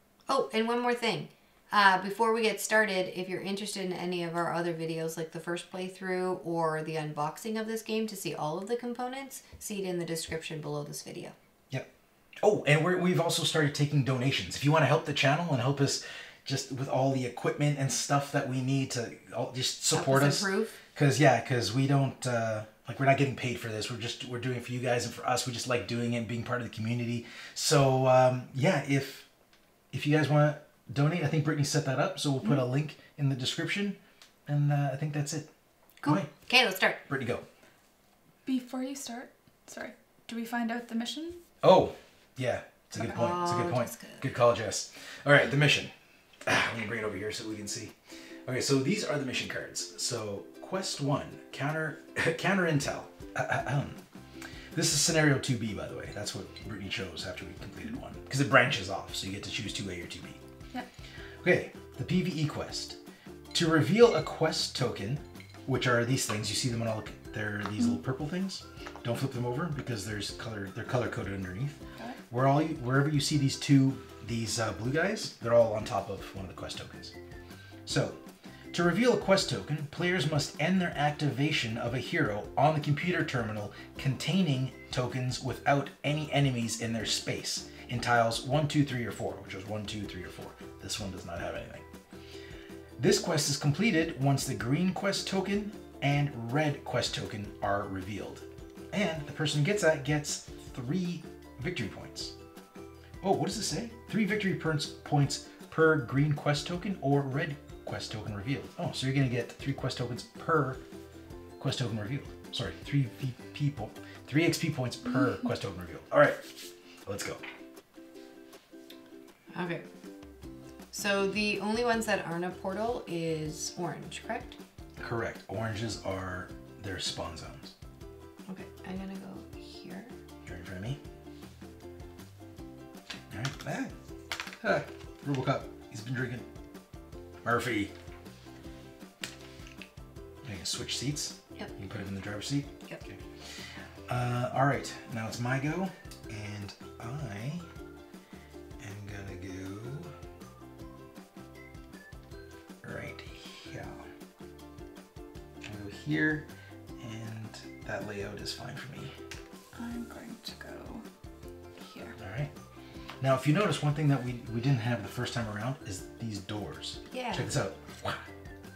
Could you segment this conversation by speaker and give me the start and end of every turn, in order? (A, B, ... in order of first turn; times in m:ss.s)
0:00.3-0:11.4 A
0:11.7-0:29.3 B
0:19.9-0:20.8 A
0:29.9-0:35.5 B
0:36.0-0:37.0 A
0:36.0-0:36.3 B
0:37.1-0:37.4 B
0:38.4-0:41.4 C
0:41.6-0:45.9 B
0:43.1-0:44.2 A
0:46.4-0:47.9 B
0:48.4-0:54.0 B
0:54.7-1:00.4 B
1:01.4-1:03.0 B
1:03.5-1:17.1 B
1:17.8-1:18.2 B
1:18.7-1:31.8 B
1:33.0-1:42.3 B
1:43.2-1:50.8 B
1:51.6-1:57.4 B
1:59.5-1:59.8 A
2:00.9-2:04.6 A
2:05.0-2:07.7 B
2:08.5-2:10.1 A
2:10.4-2:11.0 B
2:13.3-2:13.9 B
2:14.6-2:16.5 B
2:17.4-2:17.9 B
2:20.4-2:23.2 B
2:24.1-2:27.6 B
2:28.8-2:30.1 B
2:32.8-2:34.1 B
2:35.6-2:36.5 B
2:37.0-2:39.1 B
2:39.7-2:41.0 C
2:41.8-2:42.1 C
2:42.2-2:42.5 B
2:43.2-2:48.2 B
2:47.1-2:47.5 A